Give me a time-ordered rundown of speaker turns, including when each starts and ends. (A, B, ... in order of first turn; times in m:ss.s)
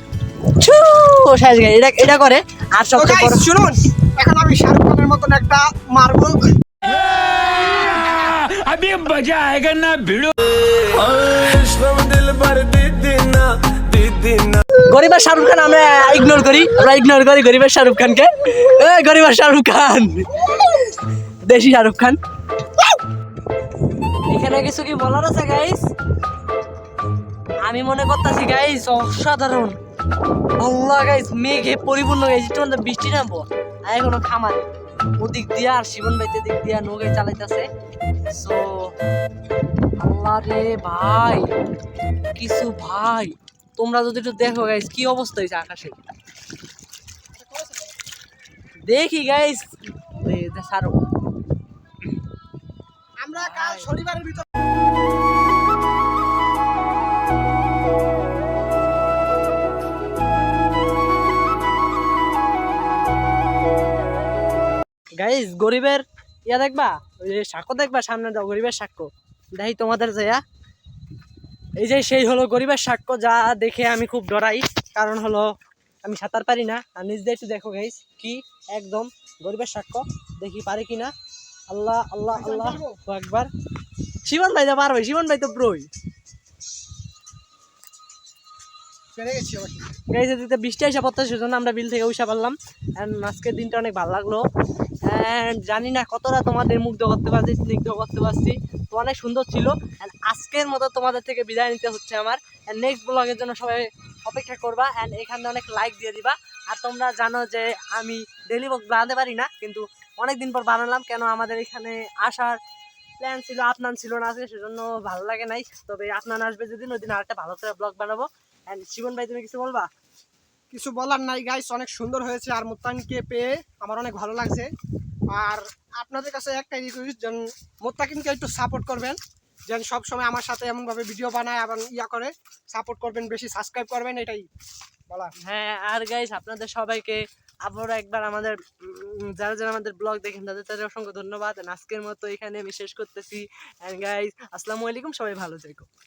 0:00.5-0:03.5 A
0:02.9-0:06.4 B
0:07.0-0:14.6 C
0:14.8-0:20.4 A
0:21.4-0:22.2 A
0:24.3-0:25.9 A
0:27.6-0:29.8 A
0:30.6-0:37.7 A
0:38.3-0:38.9 A
0:40.0-0:41.5 A
0:42.3-0:46.0 A
0:47.3-0:47.9 B
0:48.9-0:51.0 A
0:53.2-0:54.5 B
0:53.4-0:53.9 A
1:05.2-1:10.4 A
1:11.8-1:15.5 A
1:16.0-1:21.1 A
1:21.7-1:23.5 A
1:22.3-1:23.0 B
1:24.2-1:25.9 A
1:29.1-1:29.9 B
1:30.1-1:34.4 A
1:35.0-1:52.6 A
1:53.2-1:59.9 A
2:00.7-2:04.7 B
2:05.3-2:14.4 B
2:15.4-2:25.9 A